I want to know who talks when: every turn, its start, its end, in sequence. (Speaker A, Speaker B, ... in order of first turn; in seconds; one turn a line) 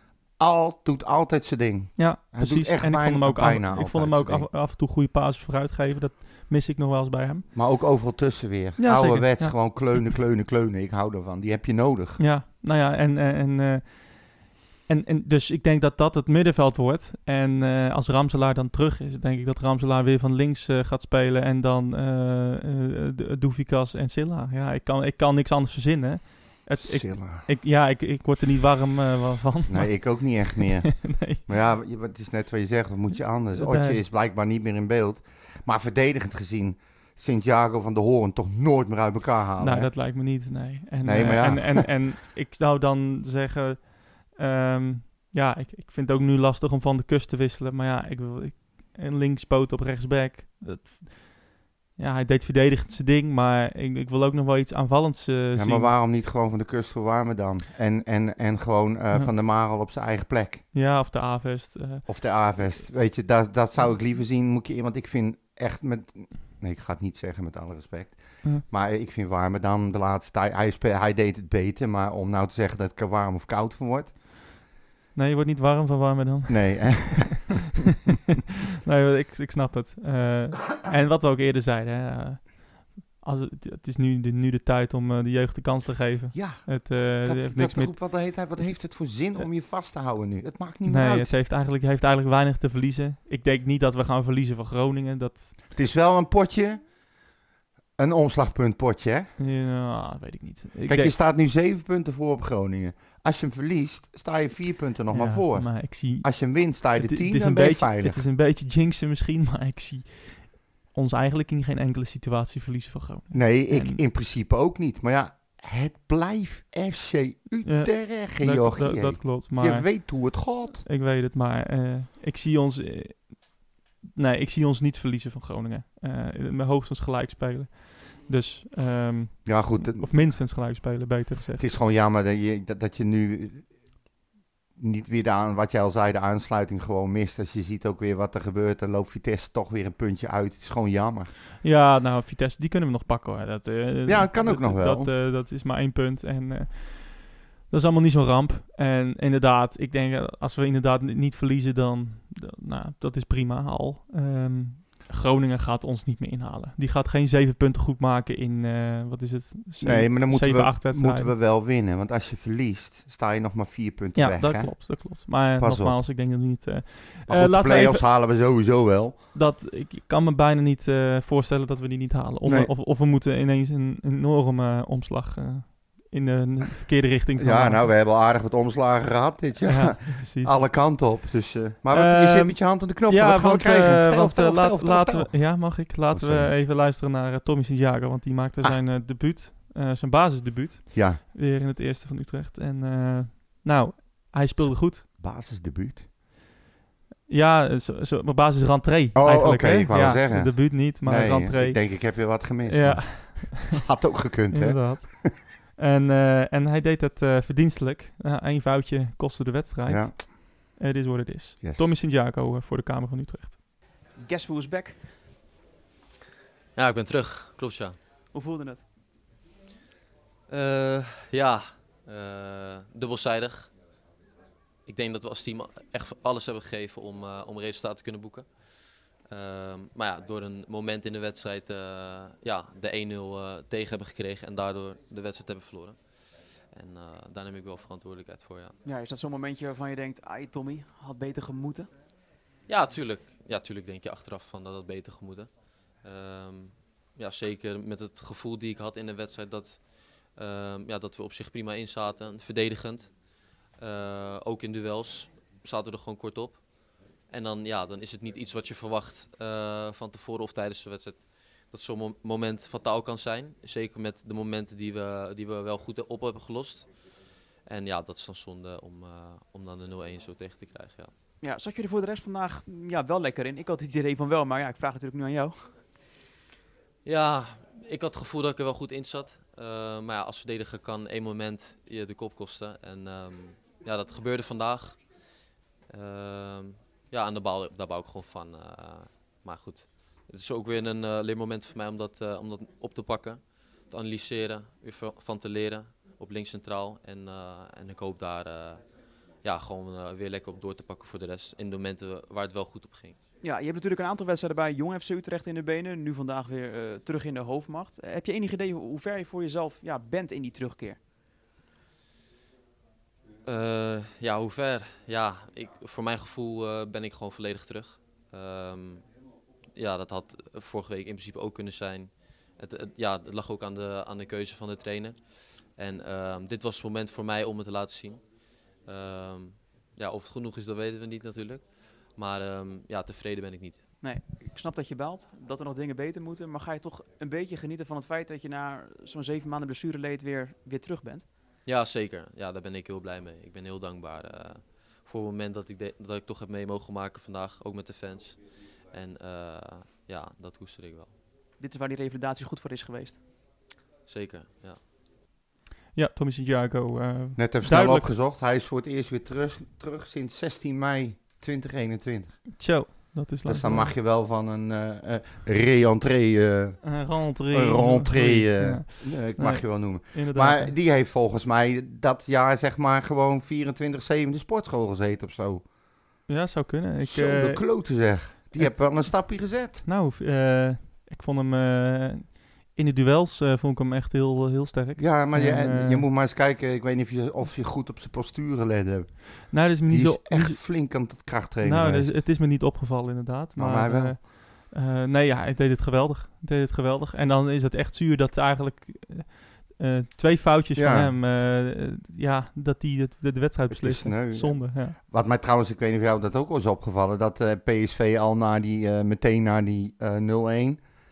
Speaker A: 0.4-4.5
Speaker B: 2.0-7.5
Speaker A: 7.5-12.2
Speaker B: 8.8-10.0
Speaker B: 12.2-31.4
Speaker A: 26.8-27.5
Speaker A: 29.7-39.9
Speaker B: 33.5-34.0
Speaker B: 39.6-51.5
Speaker A: 41.0-41.9
Speaker B: 52.0-55.9
Speaker A: 55.6-60.6
Speaker B: 60.7-62.0
Speaker A: 62.1-74.1
Speaker B: 75.2-77.3
Speaker A: 76.5-77.6
Speaker B: 78.8-88.0
Speaker A: 86.3-91.3
Speaker B: 90.9-95.5
Speaker A: 95.7-96.8
Speaker A: 98.0-99.3
Speaker B: 99.4-101.1
Speaker A: 100.9-108.2
Speaker B: 105.1-114.0
Speaker A: 113.3-120.8
Speaker B: 117.6-123.5
Speaker B: 124.2-131.7
Speaker A: 129.4-130.4
Speaker A: 131.6-133.7
Speaker A: 134.8-141.3
Speaker B: 141.6-161.3
Speaker A: 144.1-145.1
Speaker A: 159.8-166.0
Speaker B: 164.2-168.1
Speaker A: 167.3-169.2
Speaker B: 169.3-177.9
Speaker A: 172.4-172.7
Speaker A: 177.4-186.5
Speaker B: 179.6-180.6
Speaker B: 181.9-195.1
Speaker A: 190.9-191.2
Speaker A: 194.6-196.1
Speaker B: 197.3-203.8
Speaker A: 199.2-205.3
Speaker B: 204.5-213.6
Speaker A: 209.9-210.2
Speaker A: 211.6-212.0
Speaker C: 214.2-215.0
Speaker D: 216.8-218.0
Speaker C: 218.3-218.8
Speaker D: 220.5-223.7
Speaker D: 224.9-228.5
Speaker D: 229.2-238.8
Speaker C: 238.8-241.9
Speaker D: 242.7-256.7
Speaker D: 257.3-267.0
Speaker D: 267.6-271.1
Speaker C: 271.4-275.8
Speaker D: 277.1-285.0
Speaker D: 285.9-303.2
Speaker C: 303.4-311.0
Speaker D: 313.4-319.1
Speaker D: 319.8-328.3
Speaker D: 328.8-333.9
Speaker C: 334.0-341.3
Speaker D: 341.6-351.1
Speaker C: 351.6-353.2
Speaker D: 354.1-354.8
Speaker B: 355.9-358.1
Speaker A: 357.4-362.5
Speaker B: 362.6-363.9
Speaker A: 363.5-375.7
Speaker B: 366.8-370.8
Speaker B: 376.3-377.9
Speaker A: 377.0-379.8
Speaker B: 378.6-386.1
Speaker A: 385.0-392.2
Speaker B: 389.5-390.7
Speaker B: 391.6-405.0
Speaker A: 393.6-394.2
Speaker A: 400.8-401.1
Speaker A: 403.7-410.8